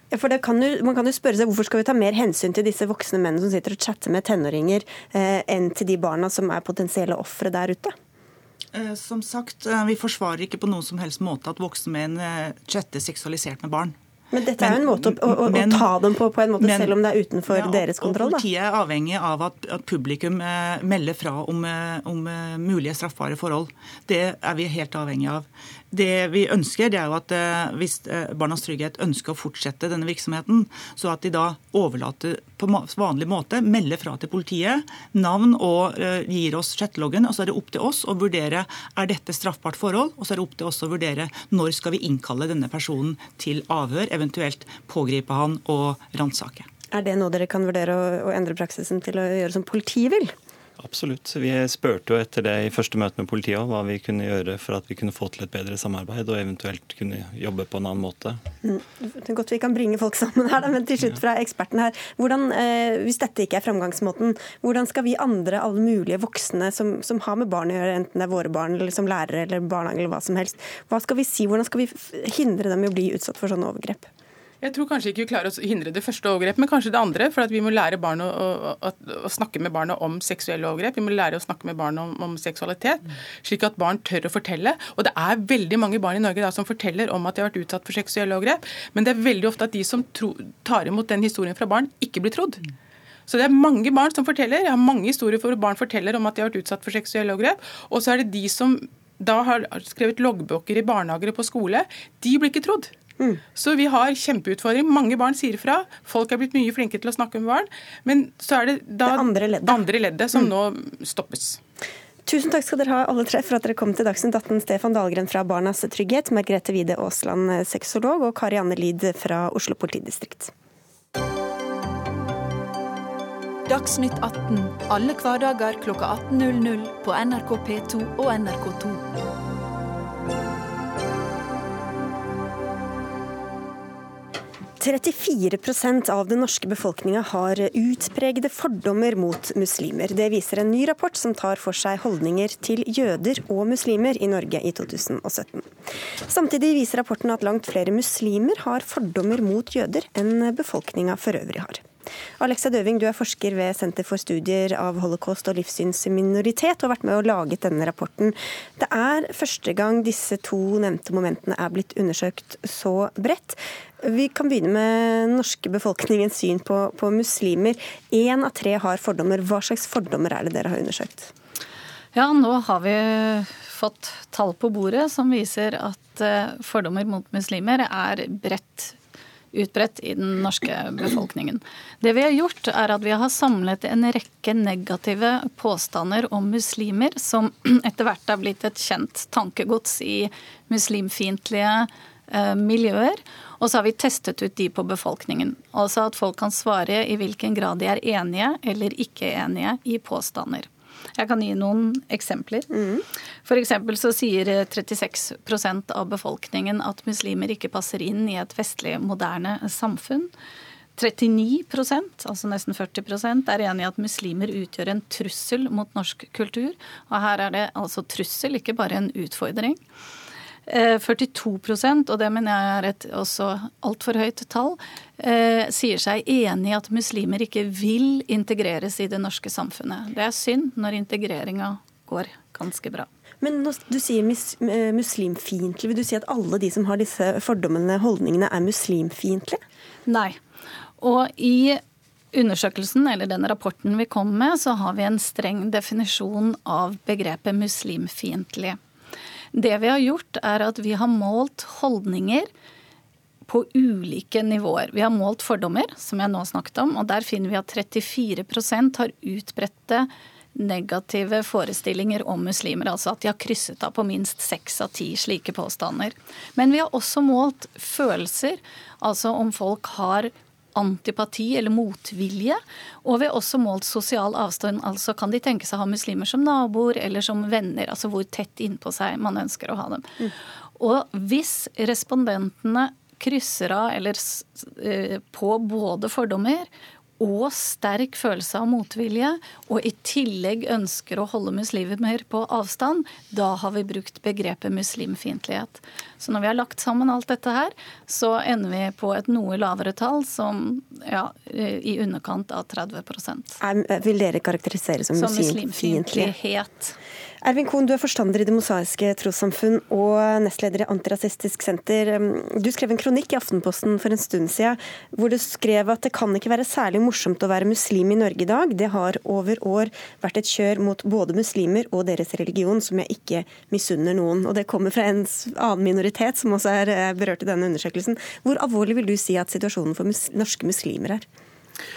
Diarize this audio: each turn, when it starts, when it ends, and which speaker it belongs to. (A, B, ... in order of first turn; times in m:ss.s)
0:00.1-0:07.9 A
0:08.7-0:14.0 B
0:14.3-0:18.4 A
0:14.6-0:15.9 B
0:16.6-0:17.0 B
0:17.5-0:46.7 B
0:46.9-0:50.3 A
0:50.8-0:58.4 C
0:58.6-1:14.1 A
1:14.6-1:32.6 D
1:33.3-1:42.9 D
1:43.5-1:51.6 D
1:49.0-1:49.8 A
1:52.2-2:00.5 A
2:03.7-2:09.1 E
2:14.8-2:25.7 A
2:26.2-2:31.8 A
2:32.4-2:51.3 A
2:52.1-2:59.0 F
2:59.5-3:22.7 F
3:22.7-3:23.0 A
3:23.4-3:30.3 F
3:31.0-3:39.8 F
3:40.7-3:53.1 F
3:53.4-3:59.6 A
4:00.0-4:00.4 F
4:01.0-4:01.8 F
4:02.3-4:08.8 F
4:09.5-4:12.5 F
4:13.5-4:40.1 F
4:40.8-5:03.6 F
5:03.6-5:06.3 A
5:05.1-5:07.0 F
5:07.4-5:31.2 A